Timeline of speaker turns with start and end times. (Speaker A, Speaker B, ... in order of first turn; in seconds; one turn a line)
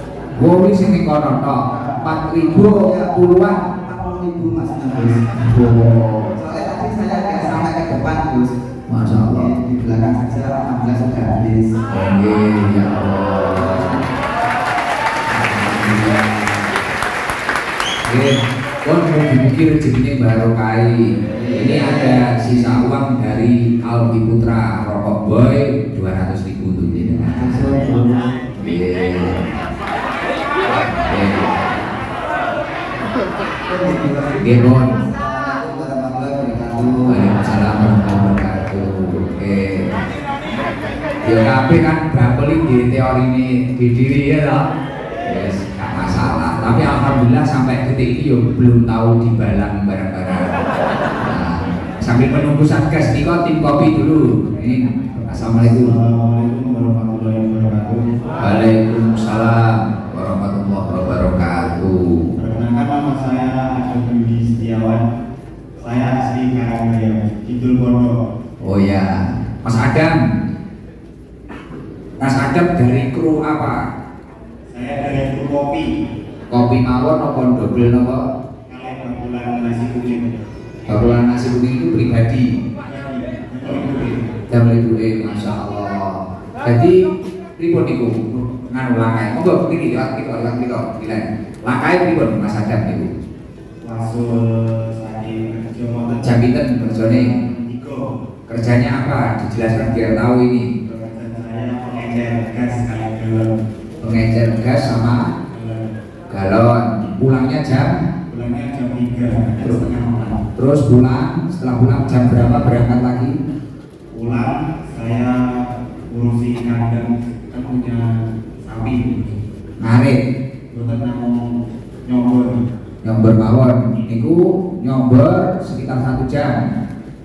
Speaker A: 0.4-3.6
Speaker B: 1.7-5.7
Speaker A: 5.3-6.3
Speaker B: 6.4-8.5
Speaker A: 8.9-9.5
Speaker B: 9.3-11.8
Speaker A: 11.9-14.0
Speaker B: 13.5-14.1
Speaker A: 15.3-16.5
Speaker A: 18.1-27.6
Speaker B: 21.3-22.9
Speaker B: 26.9-28.5
Speaker A: 28.6-29.4
Speaker A: 30.7-31.8
Speaker B: 33.7-37.5
Speaker A: 34.4-35.0
Speaker A: 37.1-39.9
Speaker A: 41.2-44.6
Speaker A: 45.3-50.5
Speaker A: 51.2-55.9
Speaker C: 55.3-58.1
Speaker A: 58.4-62.3
Speaker C: 62.4-65.0
Speaker C: 65.8-68.1
Speaker A: 68.6-69.1
Speaker A: 69.6-70.2
Speaker A: 72.2-73.8
Speaker C: 74.7-75.9
Speaker A: 76.5-78.2
Speaker C: 78.7-80.3
Speaker A: 80.9-82.5
Speaker C: 82.8-84.3
Speaker A: 84.5-87.0
Speaker A: 87.6-93.1
Speaker C: 93.8-98.1
Speaker A: 96.2-97.3
Speaker A: 98.5-100.7
Speaker C: 100.8-103.5
Speaker A: 104.0-105.2
Speaker C: 105.5-105.9
Speaker A: 106.3-107.9
Speaker C: 108.3-110.4
Speaker A: 110.5-113.3
Speaker C: 112.0-112.7
Speaker C: 114.1-115.4
Speaker C: 116.1-118.0
Speaker C: 118.6-119.4
Speaker A: 119.8-120.2
Speaker C: 120.7-121.4
Speaker C: 122.0-122.6
Speaker A: 123.0-126.6